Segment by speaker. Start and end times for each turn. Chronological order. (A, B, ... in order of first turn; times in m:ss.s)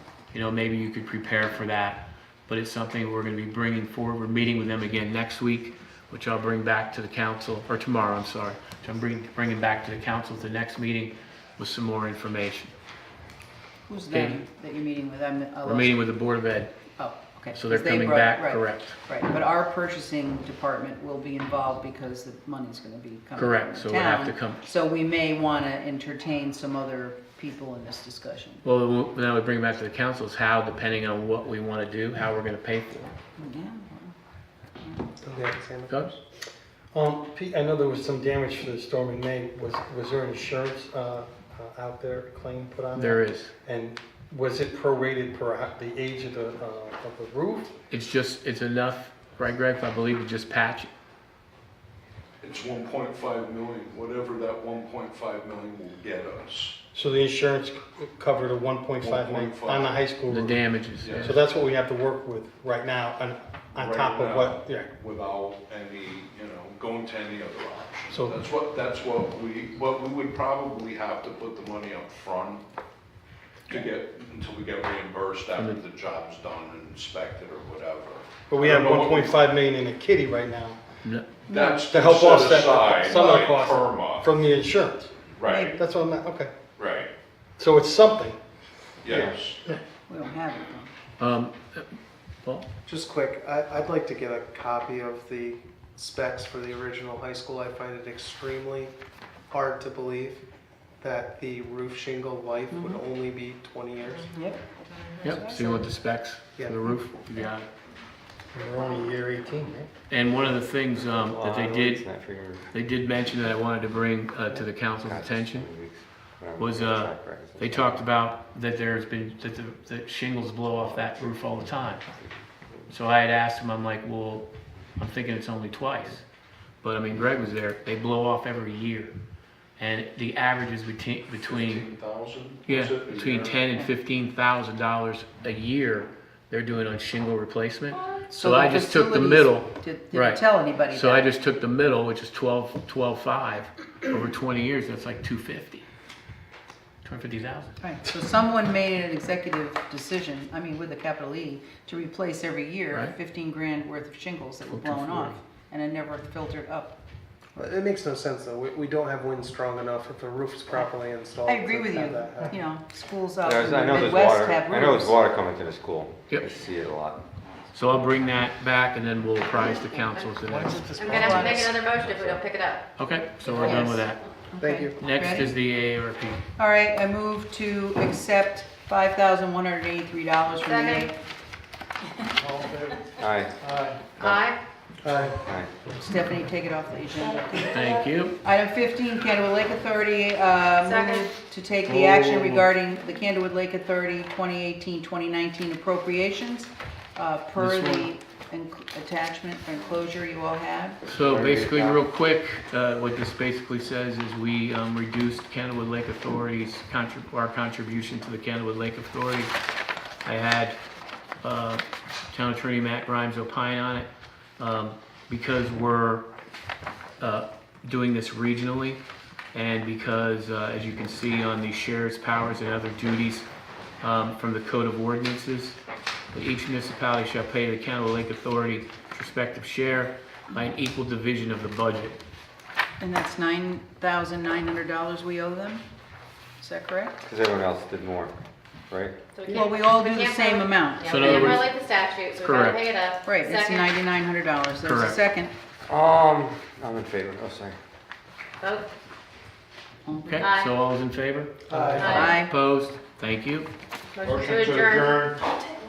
0:00.3-0:12.7 A
0:13.9-0:16.1 B
0:14.1-0:14.4 A
0:15.6-0:16.7 A
0:17.0-0:28.6 B
0:17.5-0:19.0 A
0:23.4-0:24.6 A
0:28.6-0:33.2 A
0:33.4-0:34.2 B
0:34.8-0:35.1 B
0:35.2-0:36.2 C
0:36.9-0:47.7 D
0:43.0-0:43.5 A
0:47.9-0:50.9 A
0:52.4-0:56.8 E
0:56.9-1:00.6 D
0:59.0-1:00.0 E
1:00.3-1:01.4 A
1:01.0-1:01.3 E
1:01.2-1:04.9 D
1:03.8-1:12.6 E
1:08.1-1:08.4 D
1:13.7-1:19.4 E
1:18.5-1:20.8 D
1:21.5-1:21.9 B
1:21.5-1:24.3 E
1:21.9-1:25.2 D
1:25.4-1:25.8 E
1:25.5-1:25.8 B
1:25.7-1:26.5 D
1:26.8-1:27.1 E
1:27.6-1:28.4 D
1:29.0-1:29.6 E
1:30.1-1:30.9 B
1:31.2-1:31.9 A
1:32.9-1:38.9 C
1:39.5-1:40.4 C
1:41.0-1:44.3 C
1:42.7-1:43.0 B
1:44.3-1:45.9 B
1:45.2-1:47.7 A
1:46.6-1:46.8 C
1:48.5-1:49.9 D
1:50.1-1:52.1 A
1:51.2-1:52.7 F
1:52.7-1:55.7 A
1:55.0-1:58.1 F
1:56.6-2:02.0 A
2:00.8-2:02.9 F
2:02.9-2:06.2 A
2:06.8-2:09.1 A
2:09.8-2:11.9 A
2:11.3-2:13.6 E
2:12.6-2:25.9 A
2:18.3-2:21.3 B
2:27.0-2:27.8 A
2:27.8-2:37.0 B
2:34.7-2:35.4 A
2:37.6-2:42.6 C
2:41.4-2:45.2 B
2:43.4-2:47.2 F
2:47.7-2:51.5 A
2:50.5-2:51.8 C
2:51.0-2:52.9 G
2:51.0-2:51.7 B
2:52.1-2:52.4 F
2:53.0-2:54.2 A
2:53.5-2:55.6 B
2:54.6-2:55.0 C
2:55.0-2:56.4 A
2:56.6-3:01.2 B
3:00.6-3:01.1 G
3:03.2-3:04.3 F
3:04.2-3:04.6 G
3:05.0-3:05.4 C
3:05.4-3:05.7 F
3:05.9-3:07.8 B
3:07.5-3:08.4 A
3:08.4-3:21.0 B
3:10.8-3:11.3 G
3:11.9-3:12.7 A
3:17.6-3:18.1 A
3:21.0-3:29.5 A
3:21.2-3:22.0 F
3:30.2-3:30.8 A
3:31.4-3:36.3 A
3:37.2-3:39.0 A
3:39.5-3:43.5 A
3:44.0-3:45.8 A
3:46.3-3:52.2 A
3:53.0-3:55.8 B
3:56.6-3:57.2 B
3:57.2-3:58.4 F
3:58.9-3:59.2 F
3:59.3-4:03.9 G
3:59.5-4:01.7 B
4:01.1-4:01.8 A
4:02.4-4:02.9 A
4:03.2-4:05.5 B
4:04.8-4:05.2 A
4:05.9-4:07.8 F
4:08.6-4:08.9 G
4:10.1-4:10.5 B
4:10.2-4:13.7 A
4:10.4-4:10.7 G
4:12.0-4:12.4 G
4:12.0-4:12.5 B
4:14.1-4:15.2 G
4:14.6-4:15.4 D